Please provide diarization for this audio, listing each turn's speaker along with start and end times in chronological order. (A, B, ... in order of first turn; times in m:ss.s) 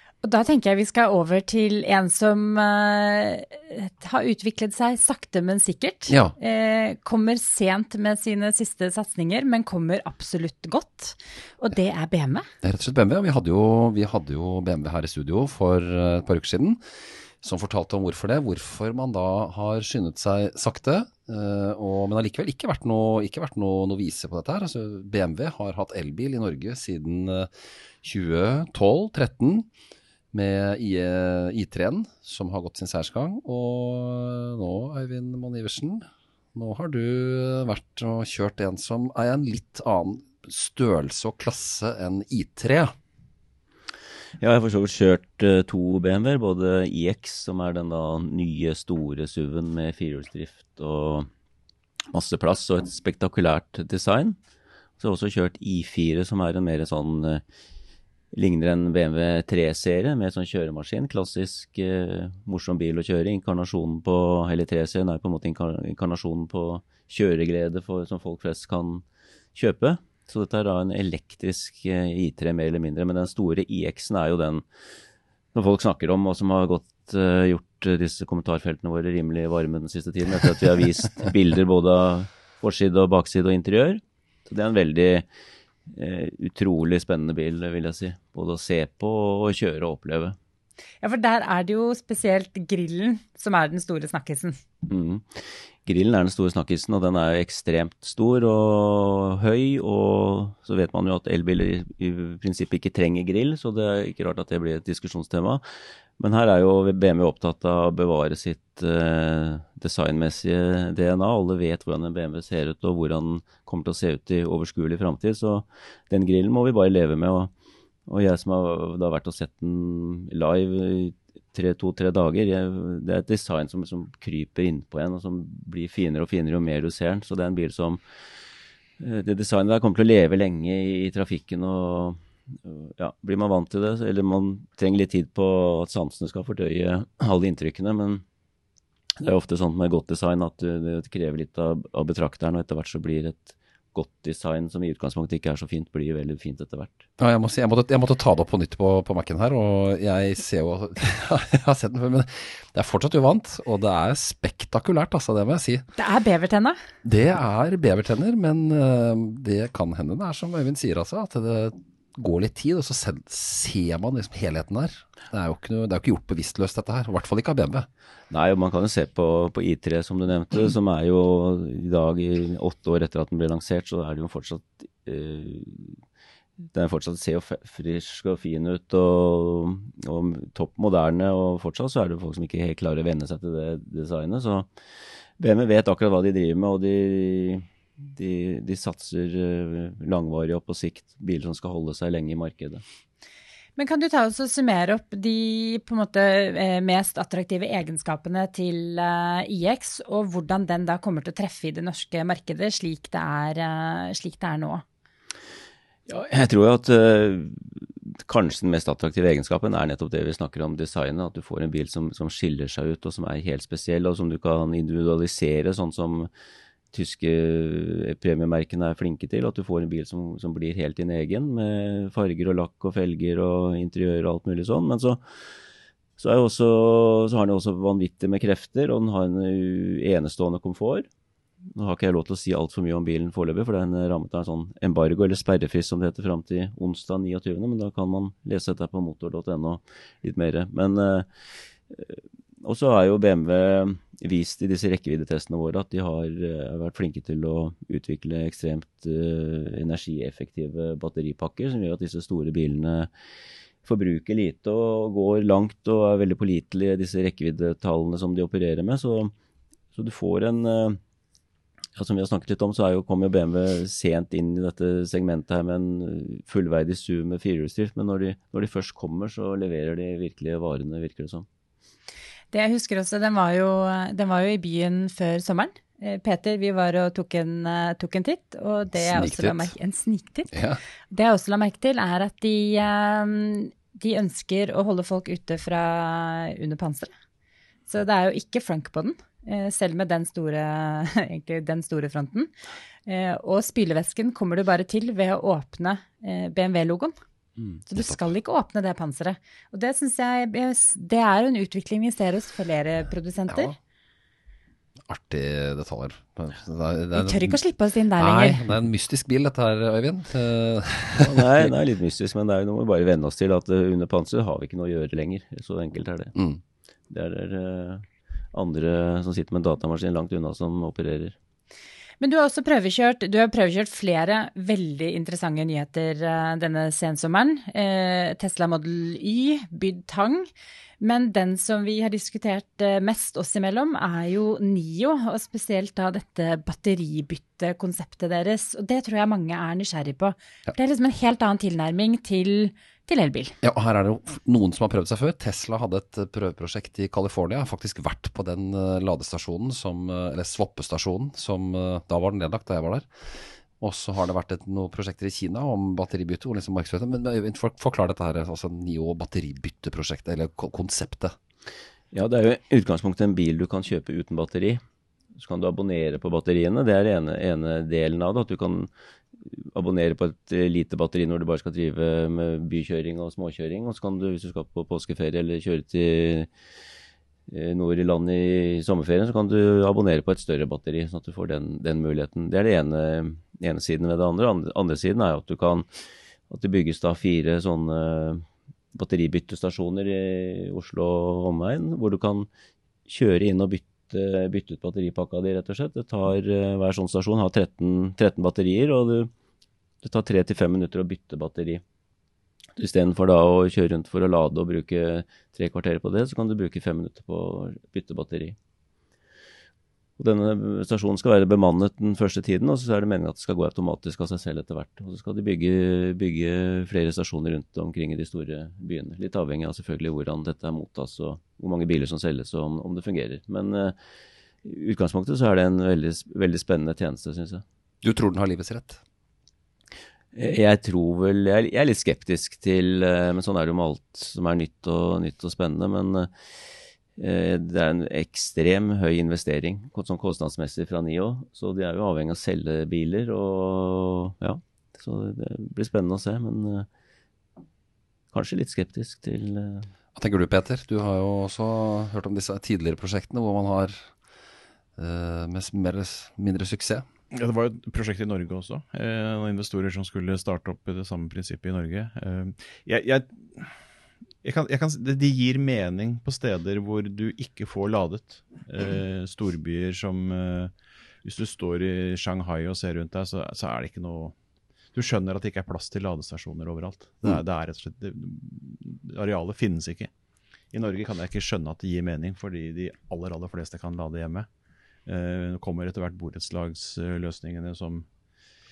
0:00.2-0:12.5 A
0:06.1-0:06.4 B
0:12.6-0:16.8 B
0:17.4-0:27.5 B
0:28.0-0:29.7 B
0:30.3-0:42.9 B
0:44.4-0:51.3 C
0:52.1-0:54.4 C
0:55.0-0:57.4 C
0:58.3-1:14.6 C
1:15.5-1:25.3 C
1:25.9-1:30.4 C
1:31.0-1:34.6 A
1:34.8-1:45.6 C
1:46.2-1:57.5 C
1:58.1-2:08.0 C
2:09.0-2:18.2 C
2:19.2-2:27.1 C
2:27.2-2:35.9 B
2:36.0-2:36.8 A
2:37.0-2:47.9 B
2:48.3-2:56.0 C
2:56.7-3:04.7 C
3:05.4-3:12.8 C
3:13.8-3:24.8 A
3:26.1-3:36.3 C
3:36.9-3:45.2 C
3:46.2-3:51.1 C
3:51.7-4:01.3 C
4:01.9-4:13.1 C
4:13.8-4:19.3 C
4:20.0-4:21.0 C
4:22.0-4:31.5 C
4:32.5-4:40.5 A
4:38.9-4:39.7 B
4:40.5-4:40.8 B
4:41.1-4:47.1 A
4:47.9-4:52.5 A
4:53.1-4:57.2 A
4:57.9-5:03.8 A
5:03.5-5:03.8 B
5:05.1-5:07.6 B
5:07.2-5:08.6 A
5:08.2-5:11.7 B
5:11.2-5:16.4 C
5:17.1-5:21.4 C
5:22.2-5:30.5 A
5:31.0-5:43.6 A
5:43.6-6:01.4 B
6:02.1-6:04.8 C
6:05.4-6:08.9 C
6:09.4-6:16.5 C
6:17.5-6:25.9 C
6:26.5-6:32.5 C
6:33.1-6:39.3 C
6:40.0-6:41.8 C
6:42.8-6:48.6 C
6:50.2-7:04.0 C
7:04.6-7:07.6 C
7:08.0-7:09.0 B
7:10.3-7:16.3 C
7:17.2-7:26.9 C
7:28.3-7:29.9 C
7:30.2-7:34.1 B
7:35.0-7:37.1 B
7:37.3-7:43.8 D
7:44.4-7:50.7 D
7:51.2-7:54.4 D
7:54.9-8:00.1 D
8:00.7-8:04.5 D
8:05.1-8:08.1 D